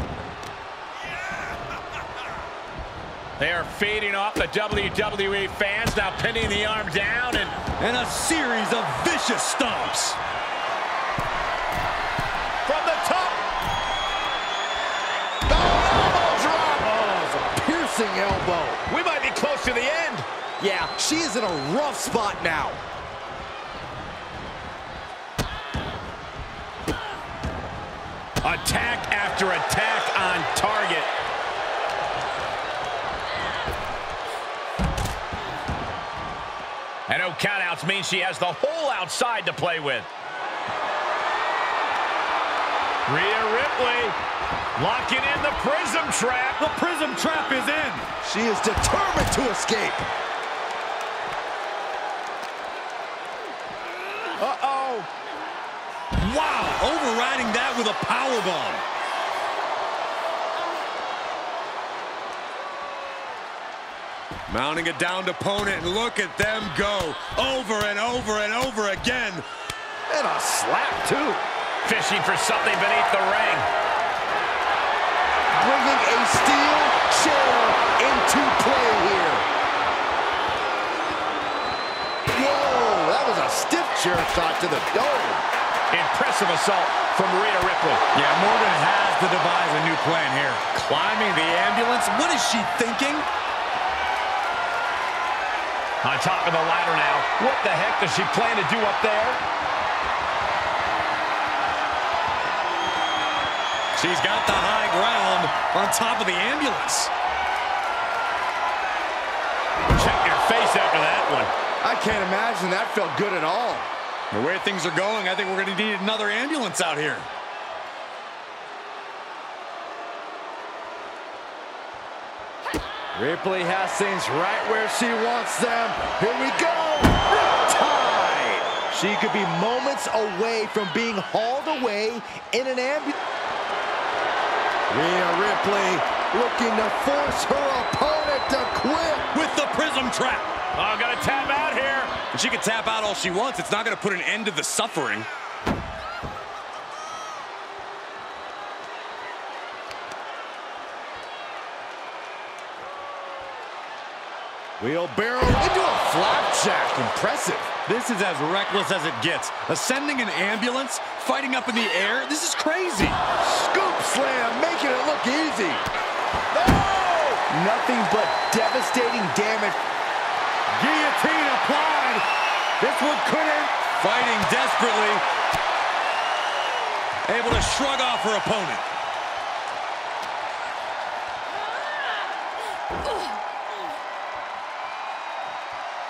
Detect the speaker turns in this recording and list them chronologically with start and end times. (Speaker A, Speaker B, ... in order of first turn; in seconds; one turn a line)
Speaker A: 3.4-7.6
Speaker B: 7.8-10.2
Speaker A: 12.7-13.4
Speaker C: 15.5-18.8
Speaker A: 18.9-20.3
Speaker C: 20.6-22.8
Speaker A: 28.4-31.1
Speaker A: 37.1-40.1
Speaker A: 43.1-44.2
Speaker A: 44.8-46.6
Speaker B: 46.6-48.1
Speaker C: 48.2-50.0
Speaker C: 54.4-55.1
Speaker B: 56.2-58.8
Speaker B: 64.5-69.4
Speaker C: 70.1-71.5
Speaker A: 71.8-73.7
Speaker C: 75.5-79.5
Speaker C: 82.3-85.4
Speaker A: 85.9-88.0
Speaker B: 88.1-93.2
Speaker A: 96.0-99.4
Speaker B: 103.9-107.1
Speaker A: 109.9-111.5
Speaker C: 111.8-113.9
Speaker B: 114.3-117.3
Speaker C: 123.1-133.1
Speaker C: 134.9-139.3
Speaker B: 139.3-140.5
Speaker A: 140.7-142.2
Speaker B: 142.3-145.3
Speaker C: 154.8-157.7
Speaker B: 157.8-163.2
Speaker C: 163.4-165.8
Speaker C: 166.5-169.8
Speaker B: 170.8-172.2
Speaker B: 172.8-175.2
Speaker B: 177.3-178.8